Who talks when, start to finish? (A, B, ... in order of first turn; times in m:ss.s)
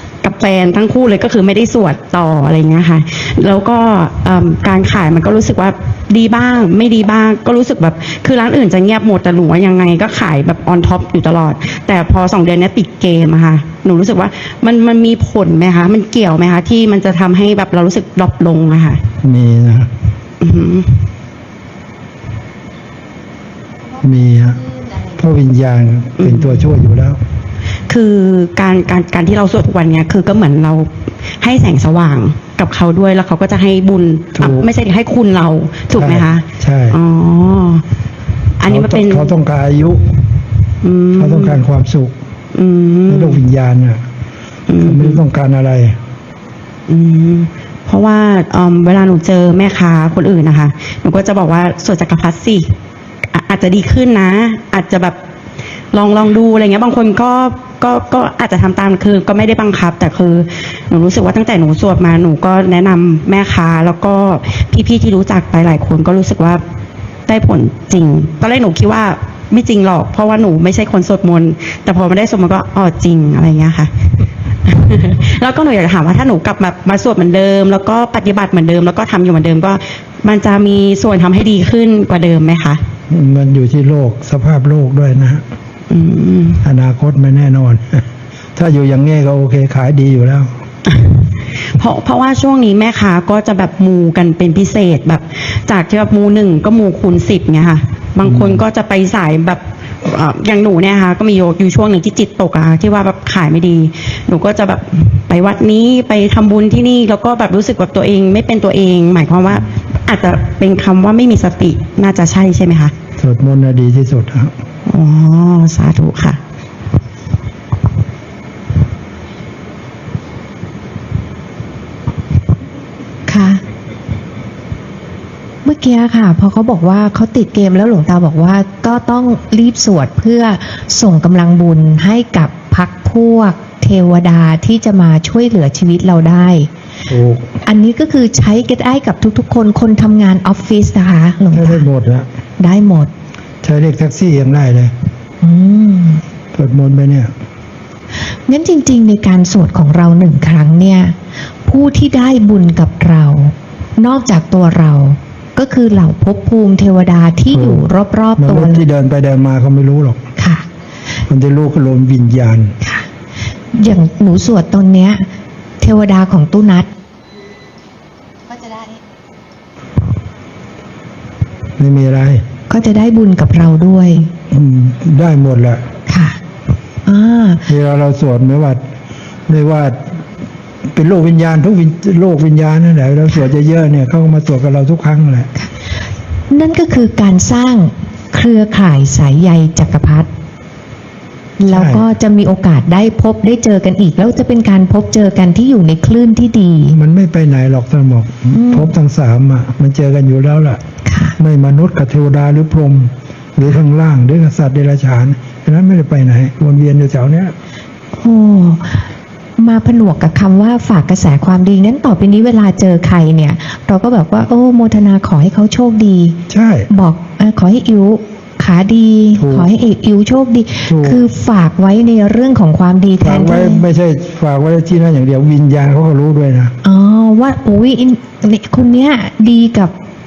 0:00.2-0:19.0 A
0:19.2-0:19.9 B
0:20.4-0:21.1 A
0:24.0-0:27.2 B
0:26.2-0:26.6 A
0:27.9-0:37.8 A
0:34.4-0:34.7 B
0:35.9-0:37.0 B
0:38.6-0:39.3 A
0:38.7-0:40.1 B
0:40.8-0:41.6 A
0:41.2-0:42.1 B
0:42.5-0:43.4 A
0:43.1-0:44.0 B
0:44.7-0:45.2 A
0:44.8-0:46.0 B
0:46.9-0:52.7 A
0:53.3-0:55.2 A
0:55.9-1:06.6 A
1:07.3-1:13.9 A
1:14.6-1:22.8 A
1:23.1-1:25.4 B
1:25.9-1:26.6 A
1:26.6-1:28.0 B
1:28.6-1:30.5 B
1:30.8-1:52.9 A
1:38.3-1:38.6 B
1:53.2-1:54.5 B
1:54.8-1:56.4 A
2:03.3-2:03.6 C
2:05.6-2:16.7 C
2:17.1-2:17.5 B
2:17.6-2:21.9 C
2:21.5-2:22.3 B
2:22.6-2:23.1 C
2:23.6-2:24.9 B
2:25.4-2:26.2 C
2:26.5-2:27.3 B
2:28.3-2:38.8 C
2:37.5-2:40.2 B
2:40.4-2:40.6 C
2:41.3-2:42.7 B
2:43.7-2:45.3 C
2:45.8-2:46.9 C
2:48.5-2:49.0 C
2:51.8-2:52.4 B
2:52.7-2:54.3 C
2:54.5-2:55.8 B
2:56.1-2:56.4 C
2:57.1-2:57.6 C
2:57.7-2:58.8 B
2:59.5-3:00.2 B
3:00.9-3:05.5 B
3:06.5-3:10.3 C
3:11.6-3:17.0 C
3:11.7-3:12.0 B
3:16.9-3:20.8 B
3:18.5-3:18.9 C
3:21.0-3:21.3 C
3:21.4-3:27.5 B
3:28.2-3:36.4 C
3:36.5-3:36.9 B
3:36.9-3:43.8 C
3:39.4-3:39.7 B
3:40.9-3:41.2 B
3:43.2-3:46.7 B
3:46.8-3:49.9 C